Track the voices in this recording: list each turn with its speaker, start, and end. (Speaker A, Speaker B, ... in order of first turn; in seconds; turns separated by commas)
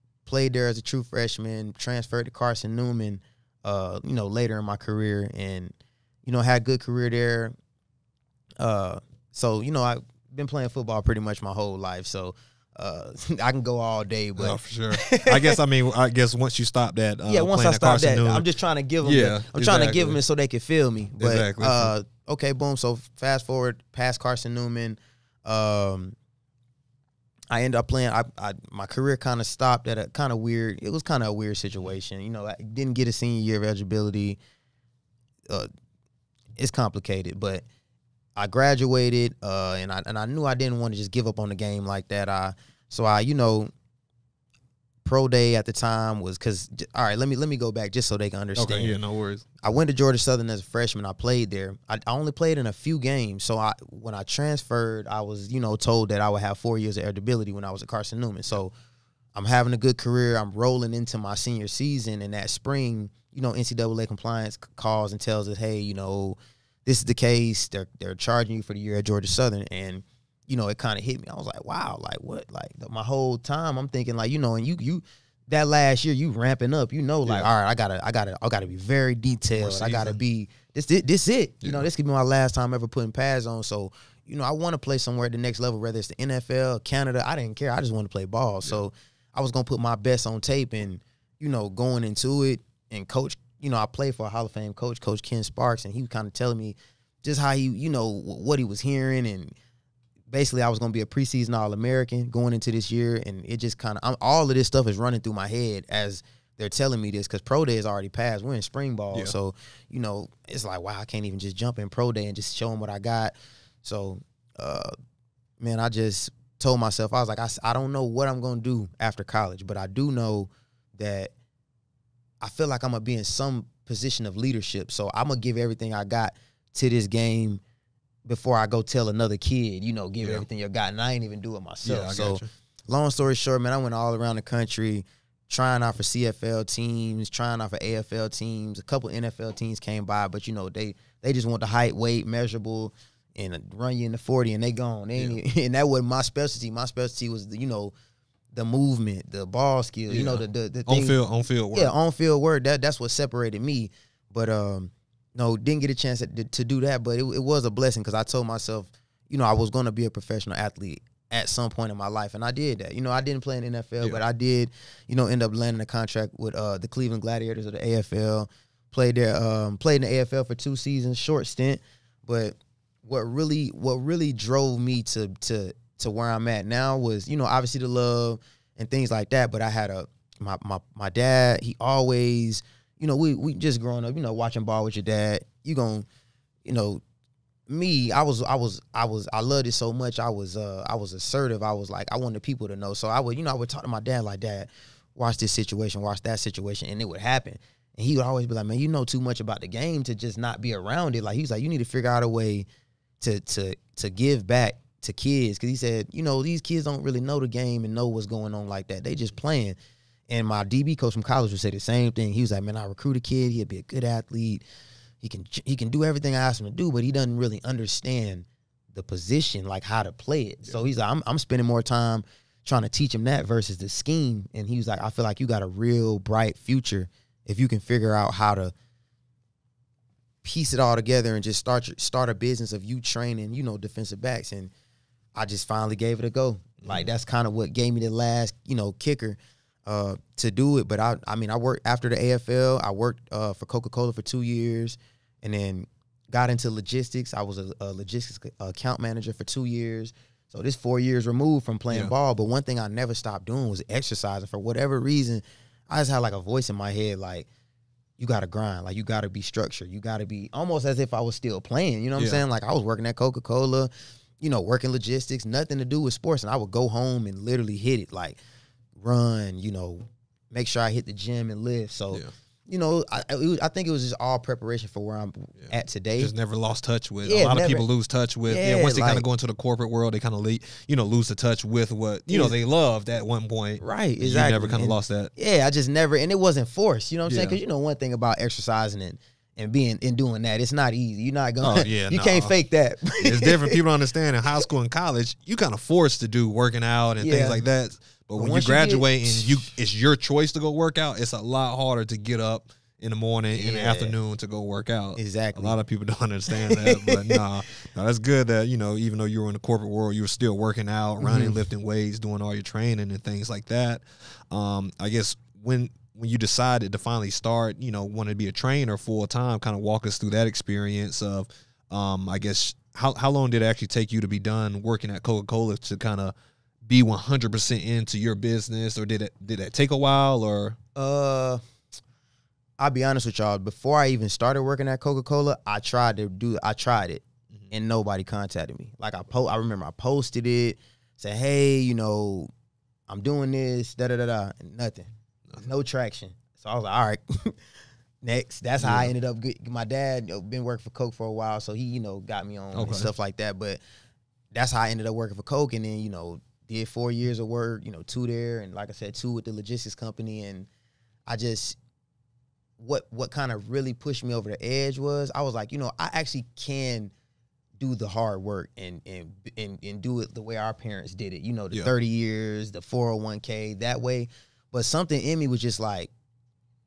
Speaker A: 0.2-5.7, Speaker A: 6.2-7.5, Speaker A: 8.6-15.6, Speaker B: 14.4-18.5, Speaker A: 17.2-26.1, Speaker B: 19.0-20.2, Speaker B: 21.2-21.9, Speaker A: 27.5-34.4, Speaker A: 36.6-37.6, Speaker A: 38.4-43.7, Speaker A: 45.0-49.0, Speaker B: 48.5-49.5, Speaker A: 49.6-58.7, Speaker A: 59.3-99.5, Speaker B: 79.5-80.2, Speaker B: 81.6-81.9, Speaker A: 100.3-114.9, Speaker A: 115.6-121.3, Speaker A: 122.4-127.6, Speaker A: 128.2-147.9, Speaker B: 131.8-132.5, Speaker A: 148.5-151.2, Speaker B: 150.1-151.9, Speaker A: 151.7-186.1, Speaker A: 186.6-187.0, Speaker A: 187.7-202.7, Speaker A: 203.2-209.8, Speaker A: 210.3-214.6, Speaker A: 215.2-228.7, Speaker A: 230.4-234.7, Speaker A: 235.3-257.5, Speaker B: 236.8-237.1, Speaker A: 258.2-263.9, Speaker B: 262.2-262.4, Speaker A: 264.4-268.4, Speaker A: 268.9-276.3, Speaker B: 275.6-285.3, Speaker A: 277.2-277.9, Speaker A: 278.5-279.2, Speaker A: 282.3-282.6, Speaker A: 283.8-293.8, Speaker B: 287.2-287.6, Speaker B: 291.6-292.5, Speaker B: 293.2-326.3, Speaker A: 297.2-297.6, Speaker A: 298.4-299.7, Speaker A: 303.5-304.1, Speaker A: 305.1-305.8, Speaker A: 306.5-307.4, Speaker A: 311.2-311.6, Speaker B: 326.9-330.8, Speaker A: 330.9-331.6, Speaker A: 332.8-342.5, Speaker A: 343.1-347.5, Speaker A: 348.2-353.8, Speaker B: 348.8-349.1, Speaker B: 352.7-353.1, Speaker A: 354.5-360.7, Speaker A: 361.3-361.8, Speaker A: 362.8-367.1, Speaker A: 367.8-376.1